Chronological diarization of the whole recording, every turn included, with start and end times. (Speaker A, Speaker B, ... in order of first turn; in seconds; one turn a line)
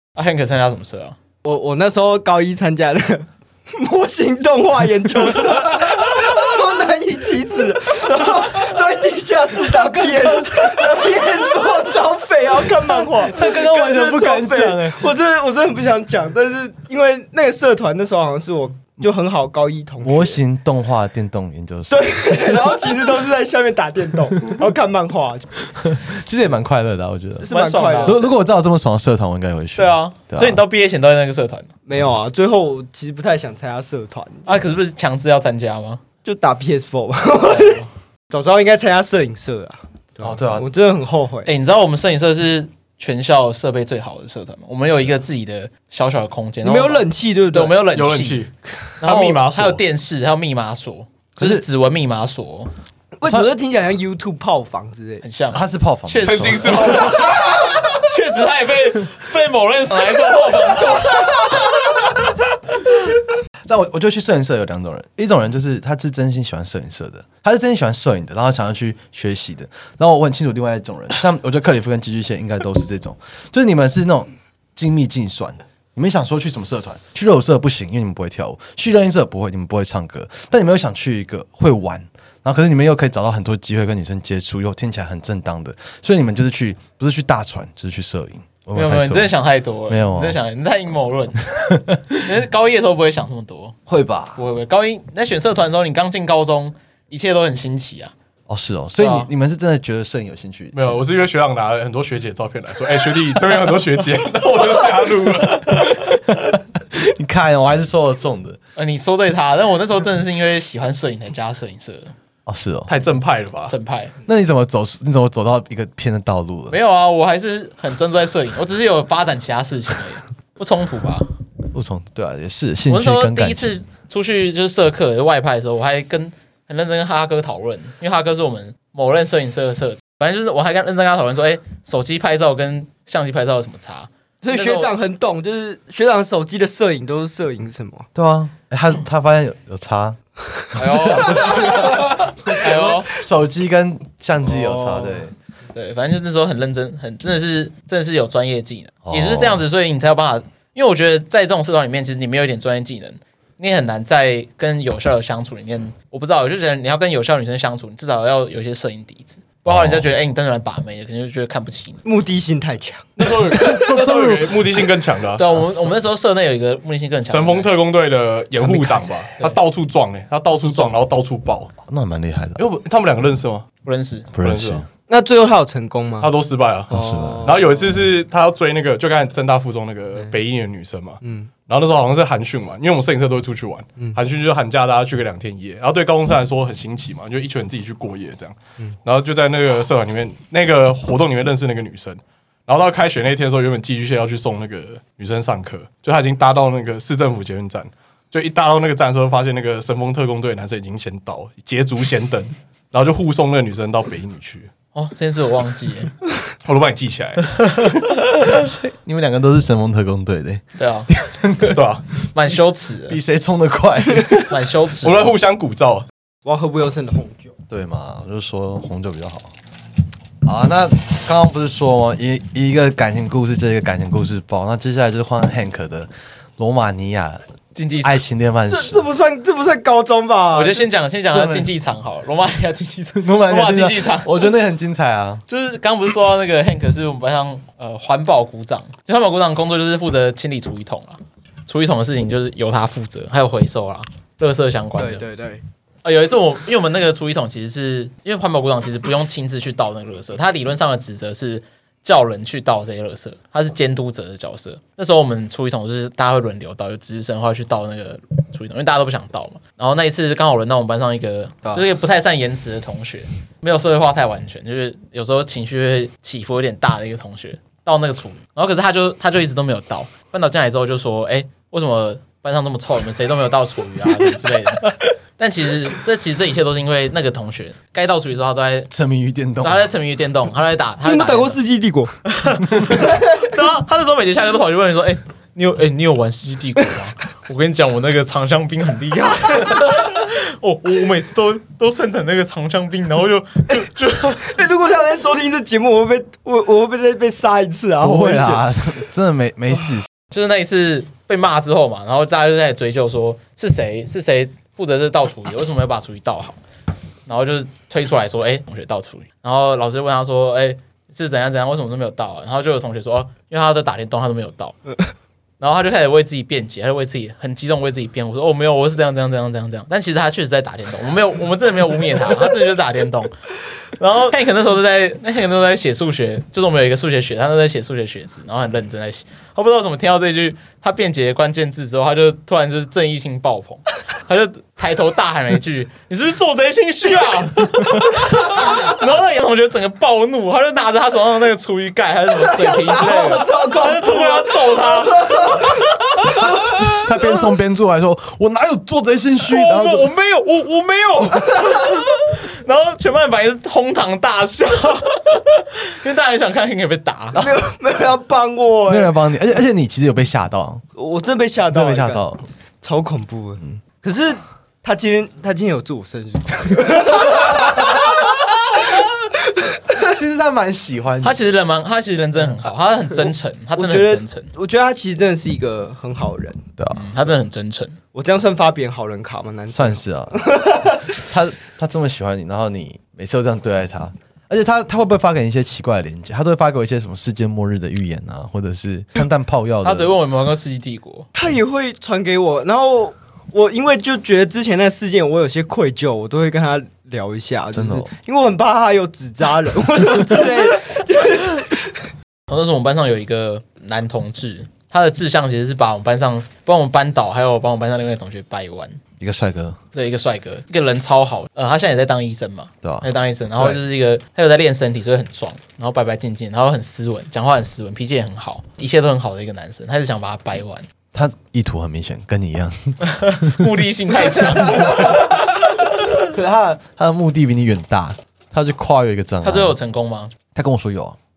Speaker A: 0.2-1.2
Speaker B: 1.4-20.4
Speaker C: 9.6-11.5
Speaker C: 12.7-15.1
Speaker C: 20.0-22.6
Speaker B: 21.9-25.5
Speaker C: 25.8-27.5
Speaker B: 27.4-28.3
Speaker A: 27.5-28.3
Speaker C: 28.0-30.6
Speaker A: 29.8-31.7
Speaker B: 31.9-34.5
Speaker A: 34.5-36.0
Speaker B: 36.2-41.5
Speaker A: 37.4-37.9
Speaker C: 40.2-40.7
Speaker A: 41.5-48.5
Speaker B: 46.6-47.8
Speaker D: 47.9-49.8
Speaker A: 49.0-52.7
Speaker C: 51.4-51.6
Speaker B: 53.2-55.2
Speaker C: 53.2-53.5
Speaker A: 55.2-61.6
Speaker C: 55.5-57.2
Speaker D: 56.2-57.4
Speaker C: 63.7-89.4
Speaker A: 88.8-91.5
Speaker C: 89.9-90.4
Speaker C: 91.5-92.2
Speaker A: 92.2-93.8
Speaker C: 93.9-94.4
Speaker A: 94.4-98.1
Speaker C: 98.5-101.0
Speaker A: 99.0-99.3
Speaker D: 100.7-106.1
Speaker C: 106.5-108.6
Speaker A: 108.8-112.1
Speaker C: 112.5-112.9
Speaker D: 112.9-113.7
Speaker A: 113.7-114.1
Speaker C: 114.3-116.8
Speaker A: 116.7-121.3
Speaker C: 121.7-123.7
Speaker A: 122.9-134.9
Speaker B: 134.4-138.1
Speaker C: 138.2-140.2
Speaker C: 140.7-145.3
Speaker A: 140.8-143.1
Speaker B: 144.5-145.2
Speaker A: 145.7-162.0
Speaker C: 149.1-149.6
Speaker C: 159.7-160.1
Speaker B: 162.0-163.3
Speaker D: 163.2-165.4
Speaker C: 163.7-164.4
Speaker A: 165.4-167.7
Speaker D: 167.3-171.7
Speaker A: 168.6-169.6
Speaker A: 170.6-170.9
Speaker C: 171.8-172.7
Speaker D: 172.6-173.7
Speaker A: 173.8-174.3
Speaker C: 174.3-174.9
Speaker D: 174.4-174.8
Speaker B: 175.1-176.3
Speaker D: 176.2-204.7
Speaker C: 176.9-177.6
Speaker B: 176.9-177.8
Speaker B: 181.2-181.5
Speaker A: 204.9-206.1
Speaker D: 206.6-207.8
Speaker C: 208.4-211.8
Speaker A: 210.8-211.1
Speaker D: 211.7-212.1
Speaker A: 212.3-213.2
Speaker C: 213.1-214.5
Speaker A: 214.5-215.3
Speaker D: 215.0-216.1
Speaker B: 216.4-217.5
Speaker C: 217.7-219.5
Speaker C: 220.4-227.4
Speaker A: 227.8-228.2
Speaker C: 228.0-229.1
Speaker B: 228.7-230.9
Speaker A: 230.5-234.5
Speaker C: 231.3-231.7
Speaker C: 233.2-235.4
Speaker A: 235.5-245.2
Speaker B: 245.0-245.6
Speaker A: 246.0-278.9
Speaker C: 278.9-279.9
Speaker A: 279.6-281.6
Speaker B: 281.0-282.1
Speaker A: 282.3-294.6
Speaker B: 294.4-298.7
Speaker C: 298.0-300.1
Speaker A: 300.3-306.6
Speaker A: 307.3-314.8
Speaker A: 315.6-323.3
Speaker A: 324.0-346.4
Speaker B: 342.6-345.8
Speaker C: 346.6-350.1
Speaker A: 349.5-357.5
Speaker B: 357.4-359.1
Speaker C: 358.9-360.9
Speaker B: 361.0-362.2
Speaker C: 361.7-362.4
Speaker B: 362.8-370.0
Speaker C: 369.9-371.4
Speaker A: 371.2-374.5
Speaker B: 373.8-376.7
Speaker C: 376.8-377.0
Speaker A: 376.9-378.0
Speaker B: 378.1-381.2
Speaker C: 379.7-390.1
Speaker A: 389.8-391.3
Speaker B: 391.4-402.1
Speaker C: 397.7-398.1
Speaker A: 402.5-409.0
Speaker C: 409.2-409.8
Speaker A: 409.9-420.9
Speaker C: 412.8-413.8
Speaker C: 421.1-423.7
Speaker A: 423.1-425.4
Speaker C: 424.2-425.4
Speaker C: 426.2-429.8
Speaker A: 429.4-430.3
Speaker C: 430.5-431.2